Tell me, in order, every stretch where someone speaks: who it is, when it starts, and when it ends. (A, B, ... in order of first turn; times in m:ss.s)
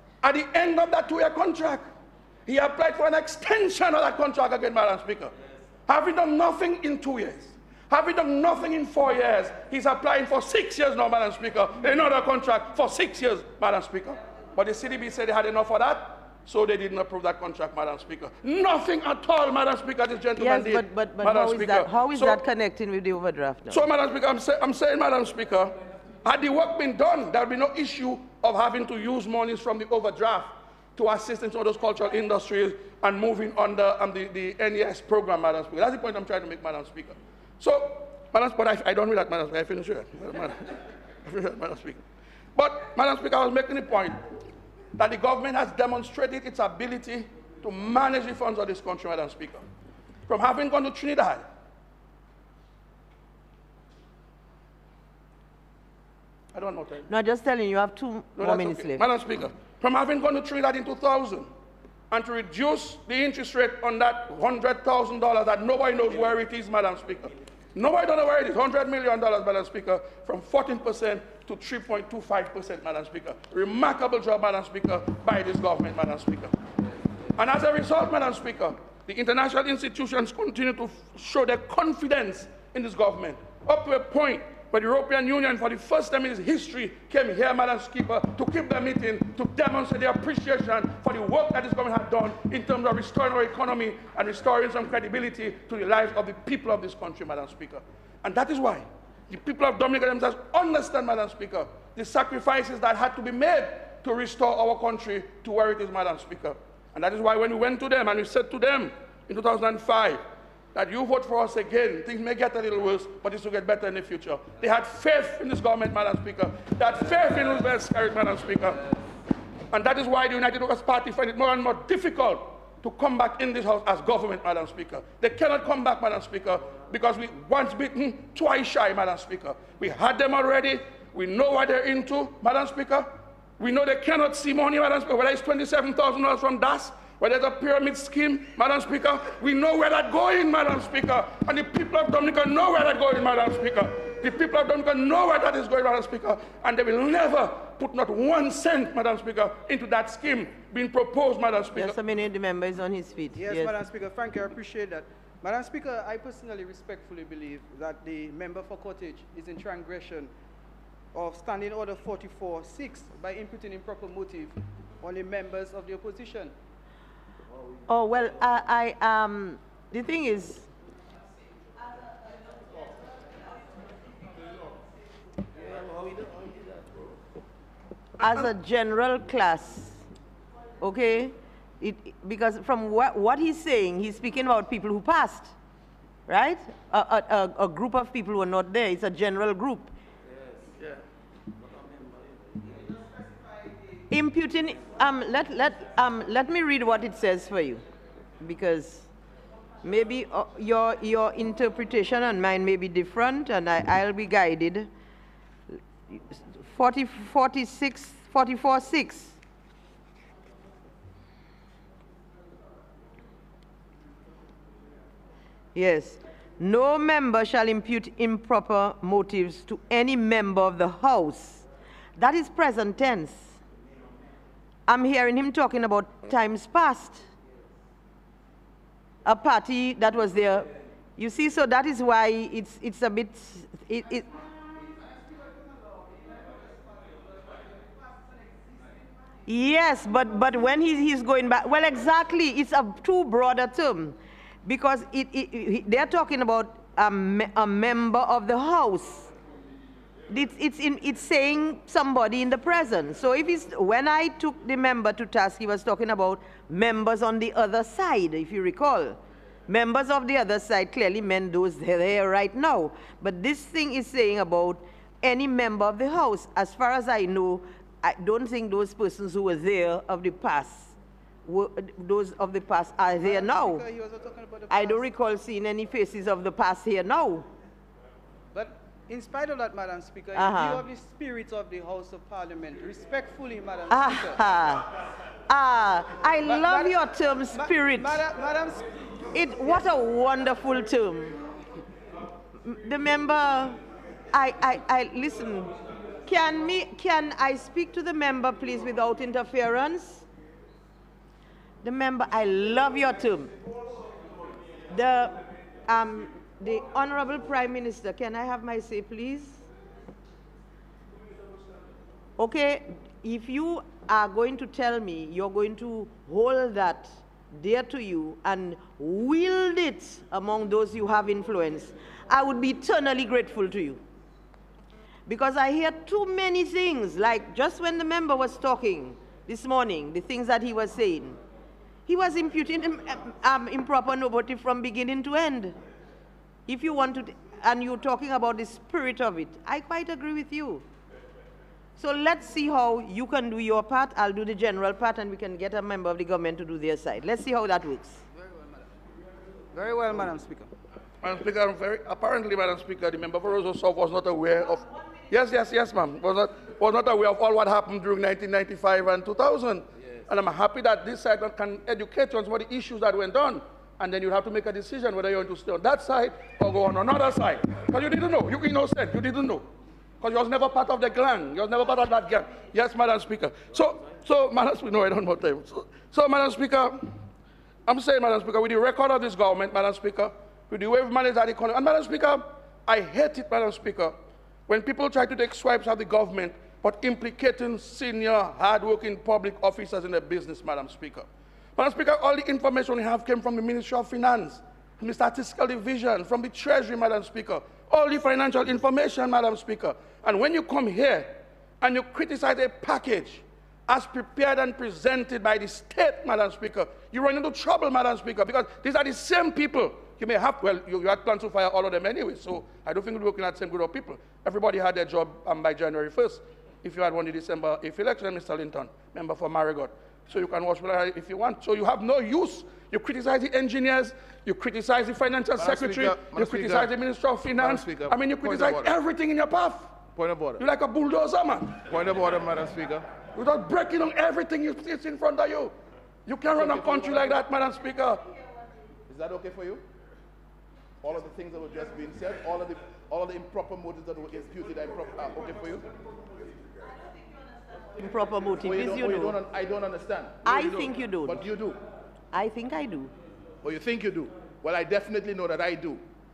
0:00.2-0:01.8 A
0:02.5-0:05.3 A
0:05.9-0:22.4 A
0:20.4-0:23.8 B
0:23.7-0:42.0 A
0:42.6-0:44.2 A
0:45.0-0:49.6 A
0:50.3-0:51.4 A
0:56.5-0:57.1 A
0:57.1-0:59.0 B
0:58.4-1:01.5 A
1:02.1-1:16.5 A
1:17.4-1:50.2 A
1:50.7-1:58.8 A
1:59.7-2:32.0 A
2:31.8-2:33.8 B
2:33.4-2:40.3 C
2:41.1-2:46.5 C
2:47.9-2:50.7 B
2:58.2-3:00.0 B
3:00.8-3:05.5 B
3:06.3-3:09.9 B
3:14.1-3:17.8 B
3:18.4-3:19.1 B
3:19.8-3:24.9 B
3:26.1-3:29.4 B
3:35.8-3:41.6 B
3:42.2-3:43.6 B
3:44.9-3:47.2 B
3:49.2-3:54.3 B
3:59.5-4:09.3 B
4:10.3-4:33.8 B
4:33.2-4:35.1 C
4:34.7-4:37.5 B
4:38.5-4:44.4 C
4:40.3-4:40.9 B
4:43.9-4:44.9 B
4:45.5-4:48.2 B
4:46.4-4:48.9 C
4:49.3-4:51.4 B
4:52.6-4:53.8 B
4:54.3-4:55.7 B
4:56.3-5:00.2 B
5:01.8-5:03.5 B
5:04.9-5:09.6 B
5:12.4-5:24.0 B
5:25.3-5:31.4 B
5:32.1-5:35.8 B
5:36.7-5:40.8 B
5:42.0-5:48.2 B
5:49.7-5:50.7 C
5:51.2-6:09.7 A
6:10.2-6:17.1 A
6:17.9-6:24.2 A
6:24.7-7:09.9 A
7:05.6-7:06.9 D
7:07.6-7:09.0 D
7:10.2-7:10.6 D
7:10.6-7:11.8 A
7:11.8-7:13.1 D
7:13.4-7:15.7 A
7:16.3-7:18.2 A
7:16.5-7:17.4 D
7:19.1-7:19.8 D
7:21.0-7:25.9 D
7:28.0-7:29.4 B
7:28.6-7:31.8 D
7:30.4-7:31.4 B
7:32.3-7:33.1 B
7:33.6-7:36.0 D